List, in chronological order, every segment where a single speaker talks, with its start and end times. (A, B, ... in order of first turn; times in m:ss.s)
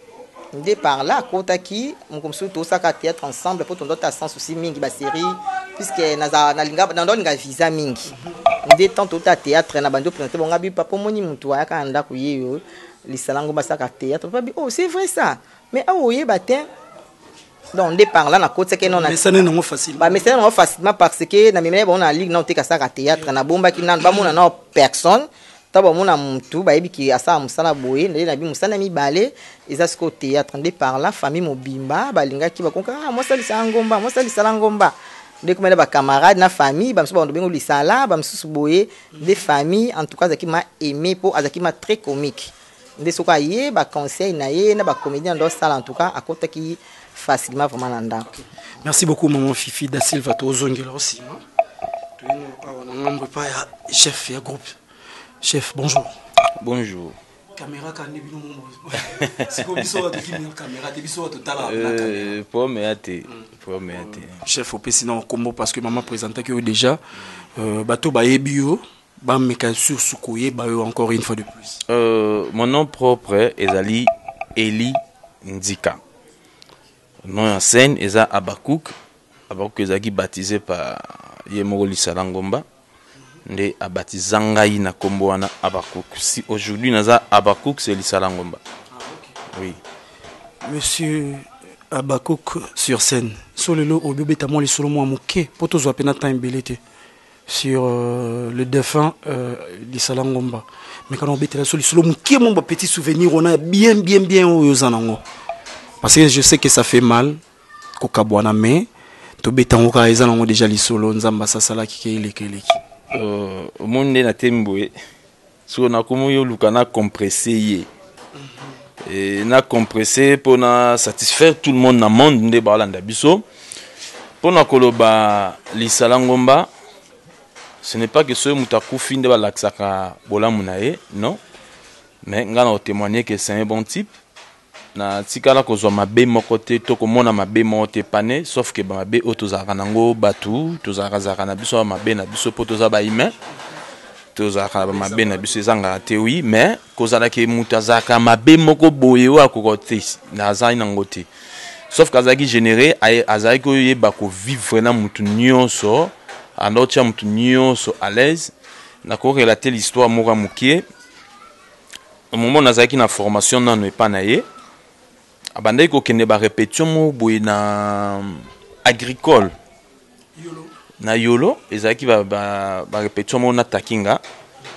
0:00.5-0:08.1 A
0:08.6-0:16.7 A
0:17.7-0:19.2 A
0:18.8-0:20.2 B
0:20.0-0:48.3 A
0:39.1-0:39.4 B
0:48.2-0:51.4 B
0:52.2-0:54.8 B
0:55.4-0:56.2 B
0:56.6-0:57.2 C
0:57.6-1:02.3 B
1:01.6-1:04.4 C
1:03.3-1:07.0 B
1:07.6-1:11.8 B
1:11.9-1:16.0 C
1:17.2-1:18.9 C
1:19.5-1:22.6 C
1:23.4-1:28.6 C
1:28.9-1:29.4 B
1:29.5-1:29.8 C
1:30.6-1:36.8 B
1:37.5-1:45.2 B
1:46.0-1:47.4 B
1:48.0-1:48.9 B
1:49.4-1:52.8 B
1:53.1-1:54.9 C
1:55.7-1:57.9 C
1:58.4-1:58.7 B
1:59.0-2:03.4 C
2:04.4-2:06.7 C
2:07.8-2:11.4 C
2:12.2-2:14.1 C
2:14.9-2:23.3 C
2:24.3-2:31.3 C
2:24.9-2:26.0 B
2:31.9-2:38.5 C
2:39.0-2:40.8 C
2:42.3-2:44.4 C
2:45.6-2:49.5 C
2:50.3-2:50.7 B
2:51.0-2:54.2 C